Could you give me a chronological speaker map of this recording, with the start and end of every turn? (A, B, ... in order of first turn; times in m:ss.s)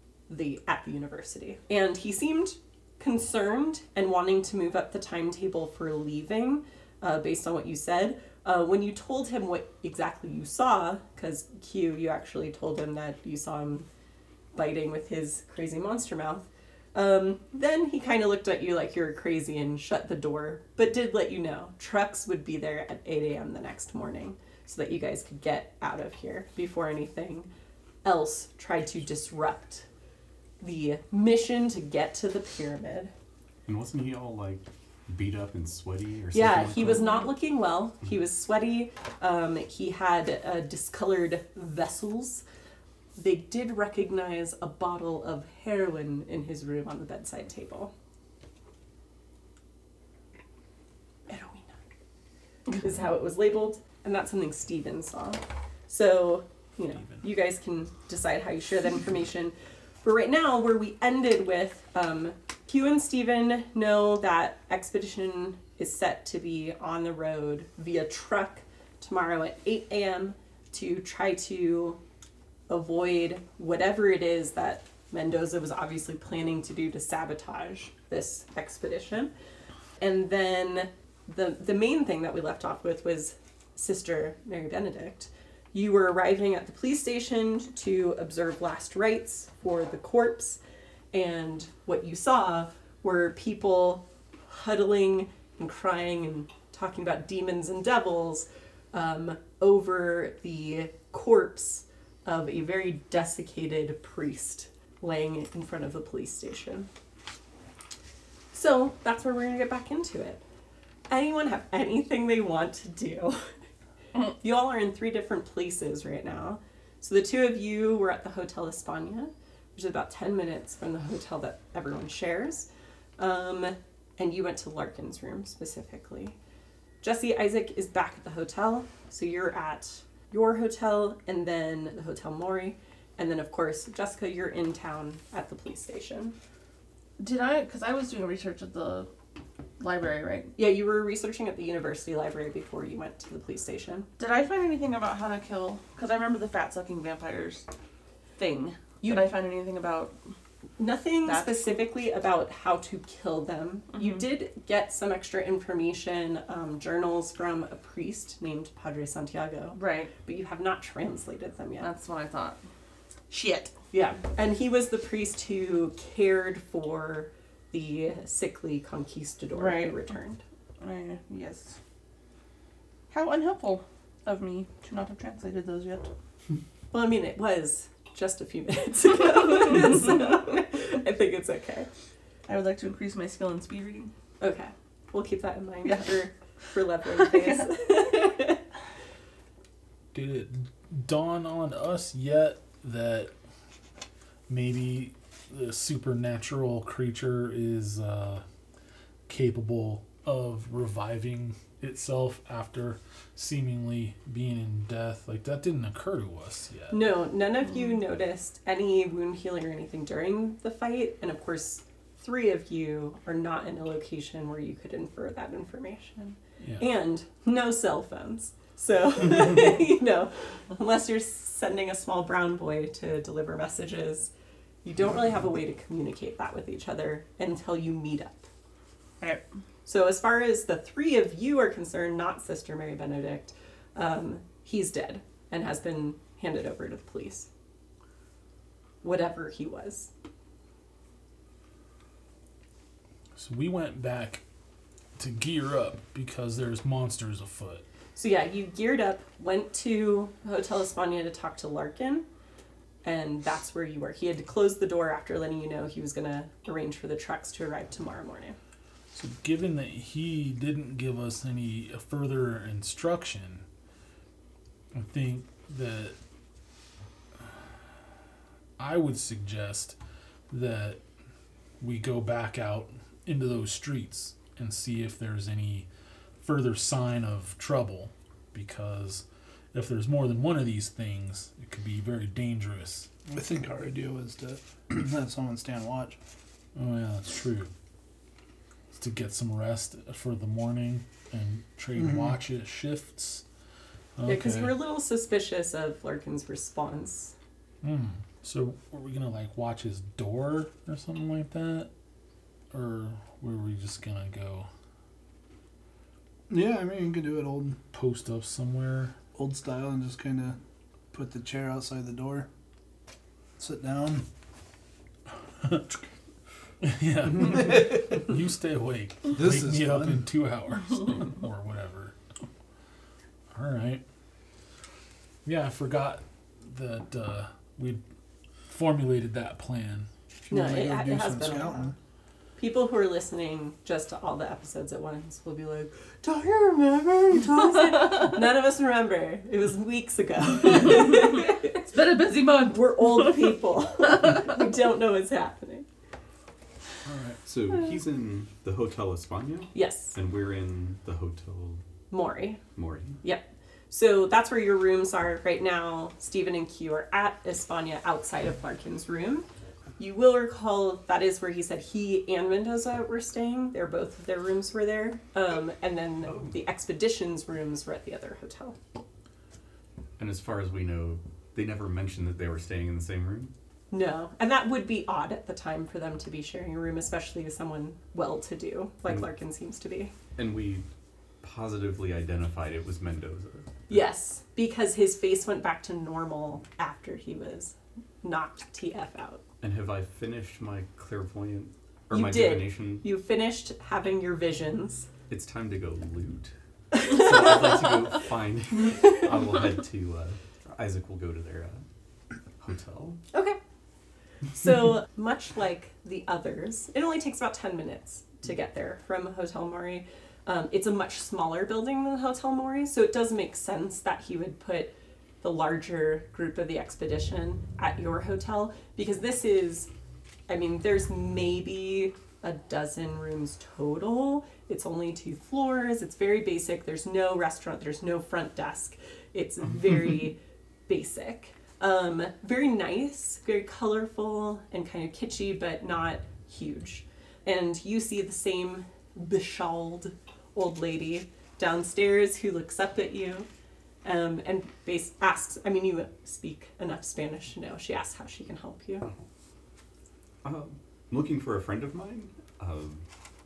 0:00.3-0:13.9 A
0:14.6-0:27.5 A
0:28.0-0:29.8 A
0:30.6-0:33.1 A
0:33.7-0:37.2 B
0:36.3-0:42.4 A
0:43.2-0:47.9 A
0:51.3-0:51.8 A
0:52.8-1:12.0 A
1:12.7-1:19.3 A
1:20.0-1:30.6 A
1:31.1-1:46.9 A
1:48.5-1:50.4 A
1:51.1-1:53.4 A
1:54.3-2:06.4 A
2:07.0-2:16.4 A
2:17.2-2:19.1 C
2:19.8-2:20.5 C
2:20.6-2:24.1 A
2:24.2-2:27.7 C
2:28.4-2:30.1 C
2:29.0-2:29.3 A
2:30.8-2:41.9 A
2:31.3-2:31.7 C
2:33.9-2:34.2 C
2:39.7-2:40.1 C
2:41.8-2:42.6 C
2:43.3-2:43.7 C
2:43.9-2:50.4 A
2:49.6-2:50.0 C
2:50.8-2:51.8 C
2:53.1-2:56.1 C
2:56.9-3:01.9 A
3:02.5-3:04.1 C
3:04.4-3:08.6 A
3:05.8-3:06.2 C
3:10.1-3:13.3 D
3:14.5-3:18.4 D
3:19.3-3:27.1 D
3:26.9-3:44.3 A
3:44.8-3:48.5 A
3:49.9-3:57.5 A
3:59.0-4:00.1 A
4:03.4-4:04.4 D
4:05.2-4:07.8 D
4:08.2-4:12.3 A
4:13.0-4:18.6 A
4:19.1-4:23.6 D
4:24.9-4:26.2 D
4:28.8-4:30.0 D
4:30.5-4:31.0 D
4:31.8-4:35.9 D
4:36.4-4:43.1 D
4:43.3-4:46.2 E
4:46.8-4:47.7 D
4:49.0-4:53.4 D
4:54.2-4:54.8 D
4:54.2-4:57.3 A
4:57.8-5:01.9 D
5:02.7-5:04.7 D
5:06.5-5:07.8 E
5:07.9-5:09.2 D
5:09.3-5:10.6 E
5:11.1-5:12.5 E
5:13.6-5:14.2 E
5:15.6-5:15.9 D
5:16.8-5:22.2 D
5:17.5-5:17.8 E
5:19.3-5:20.2 E
5:23.5-5:24.0 D
5:25.4-5:28.0 D
5:28.7-5:30.1 D
5:30.5-5:31.9 E
5:30.5-5:31.9 A
5:32.6-5:41.9 A
5:41.9-5:43.0 C
5:42.6-5:45.9 A
5:47.0-5:47.4 D
5:47.4-5:51.8 B
5:49.7-5:50.2 A
5:52.1-5:52.6 A
5:52.8-5:53.2 B
5:53.2-5:59.5 A
6:00.0-6:08.8 A
6:10.2-6:13.5 B
6:13.9-6:20.1 A
6:20.4-6:20.9 B
6:21.4-6:24.0 B
6:23.9-6:29.4 A
6:29.6-6:33.1 B
6:32.1-6:35.1 A
6:35.3-6:41.8 B
6:42.6-6:43.2 B
6:43.3-6:43.6 A
6:44.5-6:59.9 A
7:00.5-7:10.4 A
7:10.9-7:23.5 A
7:24.0-7:29.1 A
7:30.4-7:33.0 B